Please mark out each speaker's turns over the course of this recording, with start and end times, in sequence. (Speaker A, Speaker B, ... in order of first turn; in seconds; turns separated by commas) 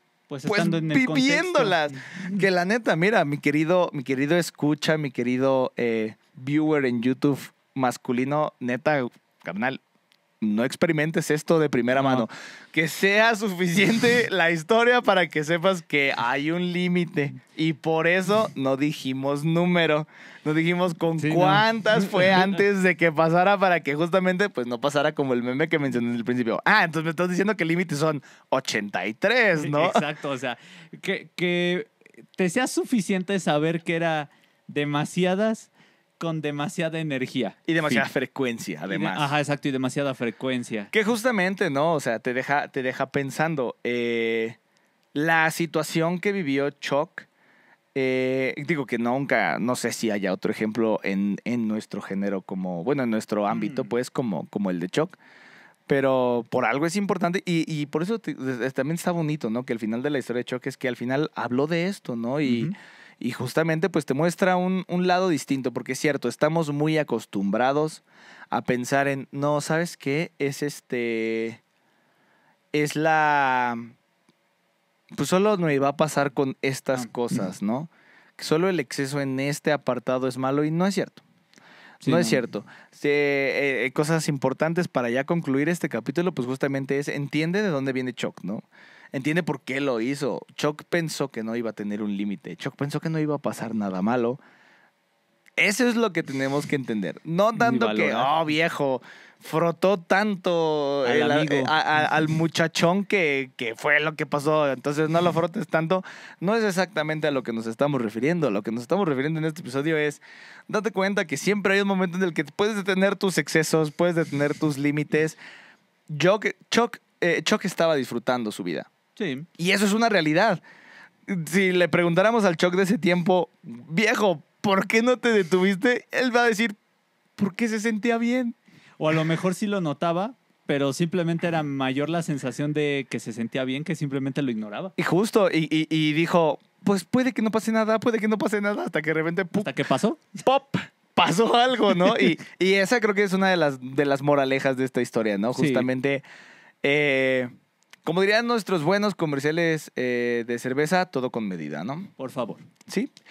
Speaker A: 0.3-2.4, Speaker B: 0.5-9.8, Speaker B: 10.4-30.0, Speaker A: 11.9-12.2, Speaker A: 21.2-22.5, Speaker A: 29.6-38.1, Speaker B: 37.7-39.3, Speaker A: 38.9-40.9, Speaker B: 40.9-44.6, Speaker B: 45.1-47.3, Speaker B: 48.0-55.2, Speaker A: 53.5-53.9, Speaker B: 55.9-71.6, Speaker A: 62.4-62.7, Speaker B: 72.7-73.9, Speaker B: 75.1-81.2, Speaker A: 77.0-77.4, Speaker A: 82.0-82.4, Speaker B: 82.0-94.4, Speaker B: 95.6-115.4, Speaker A: 97.5-98.3, Speaker A: 101.0-101.7, Speaker B: 116.1-118.9, Speaker A: 119.2-119.5, Speaker B: 119.6-120.6, Speaker B: 121.3-126.8, Speaker B: 127.4-128.6, Speaker A: 129.0-134.9, Speaker B: 135.0-139.7, Speaker A: 139.6-140.4, Speaker B: 140.4-146.2, Speaker A: 145.6-145.9, Speaker B: 146.8-147.5, Speaker B: 148.1-152.1, Speaker A: 152.2-152.7